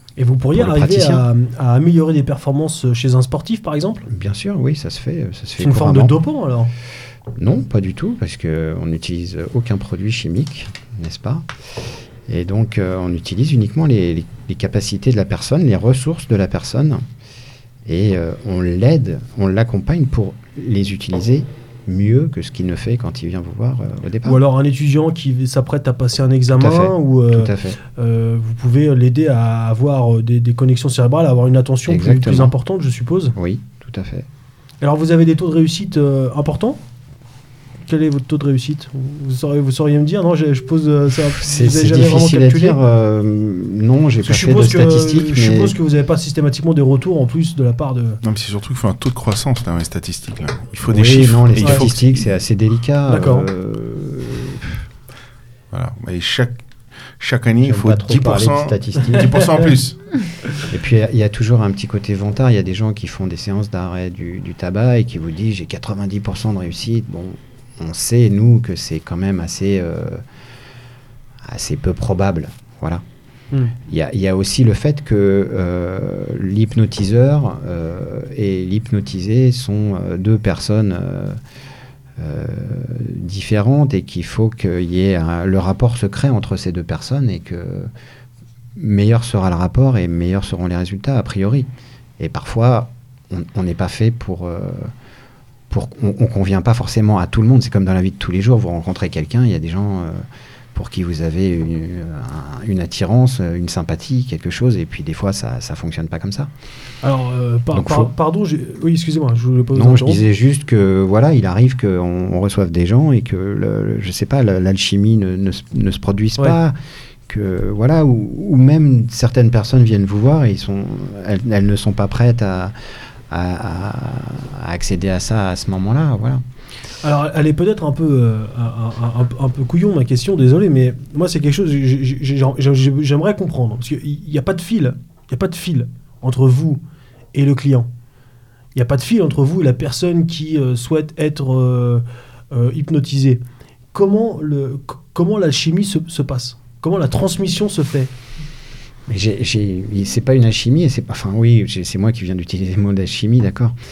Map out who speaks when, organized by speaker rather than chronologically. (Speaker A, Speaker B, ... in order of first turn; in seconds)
Speaker A: 0.2-4.0, 5.6-6.7, 24.2-33.3, 34.8-36.8, 37.9-42.8, 44.2-48.2, 53.1-53.5, 107.0-110.2, 127.0-136.8, 137.3-137.9, 138.7-143.4, 143.9-148.1
Speaker B: 0.6-1.2, 4.1-6.1, 7.4-11.4, 12.3-17.0, 17.9-24.4, 26.6-27.8, 31.9-32.5, 33.3-34.3, 41.3-45.8, 50.9-54.8, 57.6-59.7, 60.7-70.2, 71.5-73.0, 73.9-81.4, 82.2-87.9, 88.8-94.9, 95.7-106.5, 107.7-108.1, 109.7-126.4, 149.1-153.8
Speaker C: 48.2-52.3, 55.7-56.6, 57.2-60.0